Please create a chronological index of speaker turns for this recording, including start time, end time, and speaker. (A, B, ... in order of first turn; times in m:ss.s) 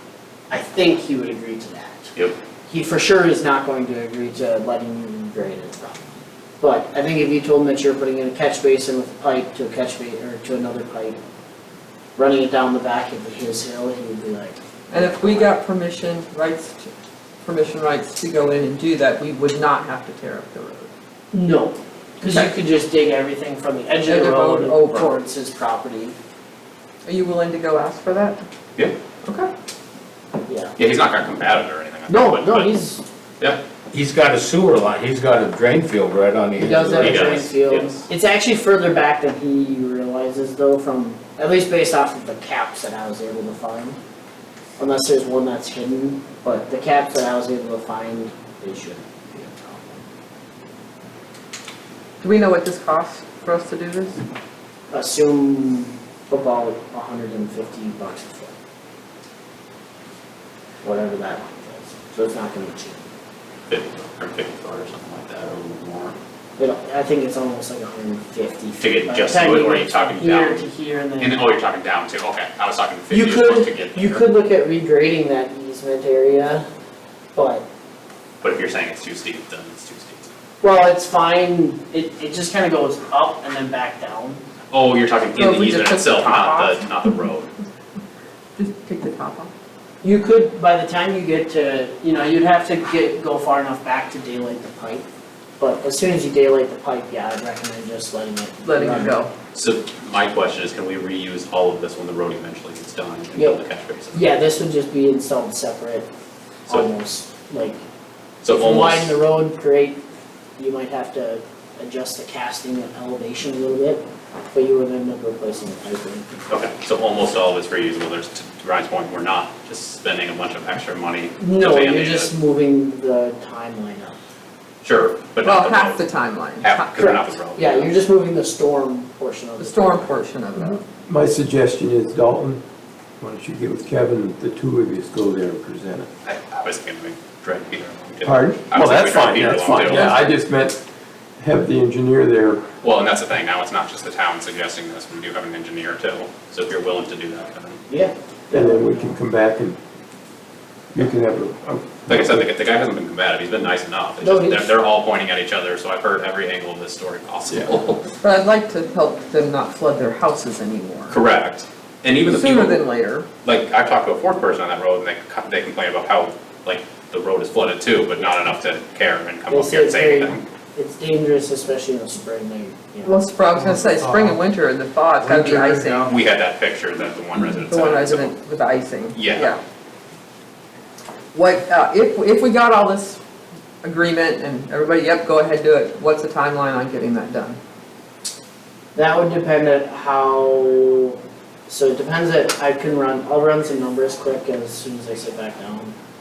0:00.5-0:02.1 A
0:02.7-0:06.0 A
0:06.6-0:11.2 A
0:12.2-0:15.5 A
0:14.9-0:16.9 B
0:17.4-0:20.9 B
0:21.3-0:26.2 A
0:24.1-0:25.1 B
0:27.0-0:28.4 B
0:29.2-0:29.5 B
0:30.4-0:30.7 A
0:30.8-0:32.7 C
0:32.1-0:33.0 A
0:33.9-0:37.4 D
0:36.6-0:44.0 A
0:37.0-0:37.9 C
0:44.8-0:50.0 A
0:52.2-0:54.2 B
0:54.9-0:58.5 A
1:00.8-1:03.0 A
1:03.7-1:06.1 C
1:06.6-1:11.4 A
1:08.8-1:10.6 C
1:11.2-1:14.2 C
1:13.1-1:16.6 A
1:17.3-1:17.6 A
1:18.4-1:20.3 C
1:20.6-1:24.4 A
1:24.7-1:27.5 C
1:25.3-1:26.8 B
1:28.6-1:29.5 B
1:30.0-1:35.0 A
1:35.6-1:39.2 A
1:38.6-1:39.3 B
1:39.5-1:44.3 C
1:43.3-1:46.1 A
1:46.7-1:47.8 A
1:48.4-1:49.1 C
1:48.5-1:50.0 A
1:50.6-1:56.5 A
1:56.5-2:02.3 C
2:01.4-2:04.2 A
2:04.8-2:06.0 C
2:05.4-2:07.3 B
2:06.6-2:07.9 C
2:07.0-2:10.1 A
2:09.6-2:10.8 B
2:10.6-2:12.6 E
2:13.2-2:16.1 E
2:16.2-2:20.3 C
2:18.2-2:20.8 E
2:21.4-2:22.6 E
2:22.8-2:27.8 C
2:27.9-2:28.9 A
2:28.5-2:29.8 E
2:30.9-2:32.4 E
2:32.1-2:38.0 C
2:34.2-2:34.7 A
2:38.1-2:41.2 B
2:41.1-2:42.8 C
2:42.2-2:43.3 B
2:43.4-2:50.4 C
2:49.5-2:53.2 A
2:53.0-2:56.2 B
2:53.5-2:54.4 E
2:55.2-2:56.1 E
2:56.1-2:58.3 C
2:57.4-2:59.6 B
2:59.1-2:59.5 C
3:01.3-3:03.2 B
3:03.8-3:07.6 B
3:08.9-3:11.2 A
3:11.7-3:15.9 A